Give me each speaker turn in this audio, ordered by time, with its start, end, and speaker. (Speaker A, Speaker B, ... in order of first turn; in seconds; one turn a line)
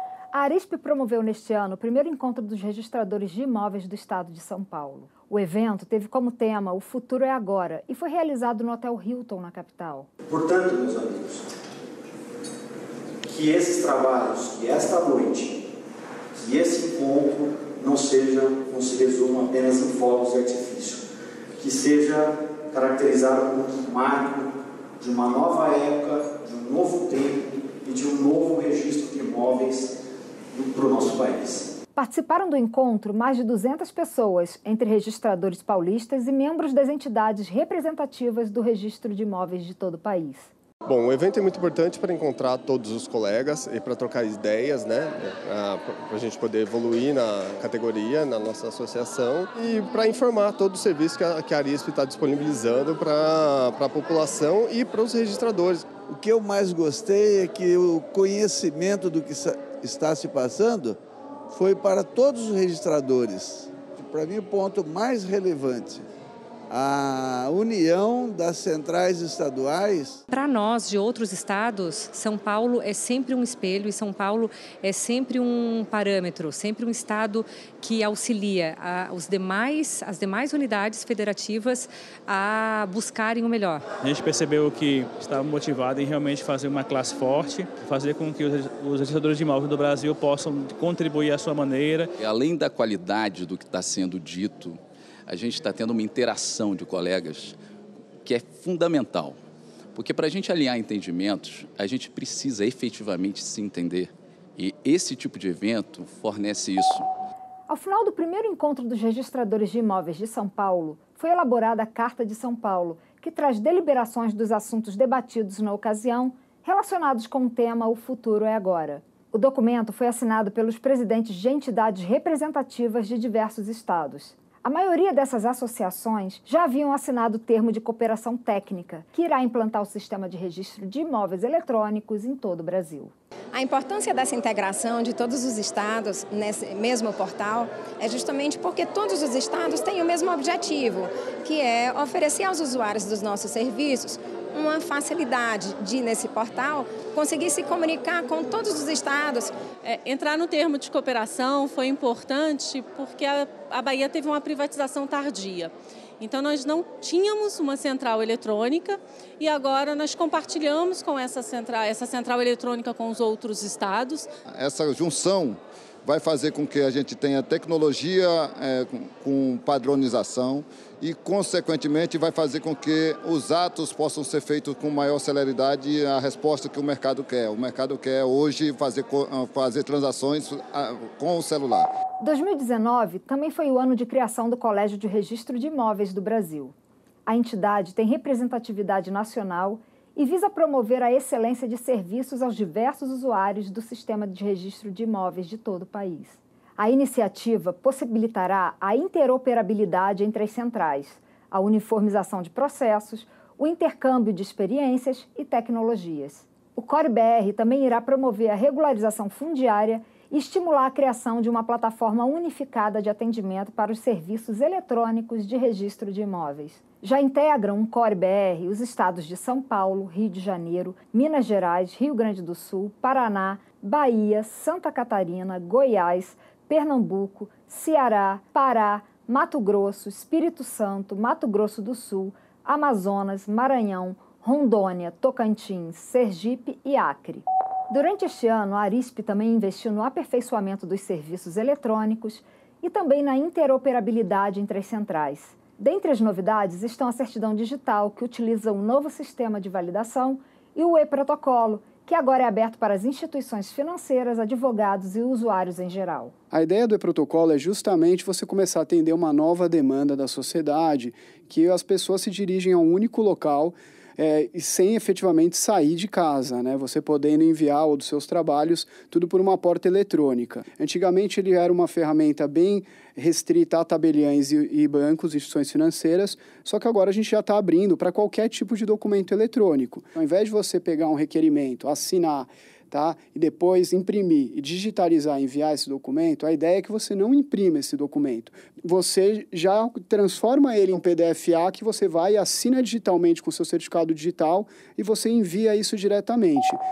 Speaker A: 0.3-10.1
Speaker B: 10.3-11.5
Speaker B: 13.3-15.6
Speaker B: 16.4-21.0
Speaker B: 21.6-29.9
Speaker B: 30.5-31.7
Speaker A: 31.9-40.5
Speaker C: 40.9-55.9
Speaker D: 56.2-60.9
Speaker D: 61.5-66.0
Speaker D: 66.7-70.1
Speaker E: 70.3-83.8
Speaker F: 83.9-92.1
Speaker G: 92.2-97.5
Speaker G: 98.2-99.4
Speaker G: 99.9-107.1
Speaker A: 107.7-133.1
Speaker H: 133.5-149.5
Speaker I: 149.8-164.3
Speaker J: 164.6-181.9
Speaker A: 182.2-186.7
Speaker A: 187.3-256.3
Speaker K: 256.5-296.8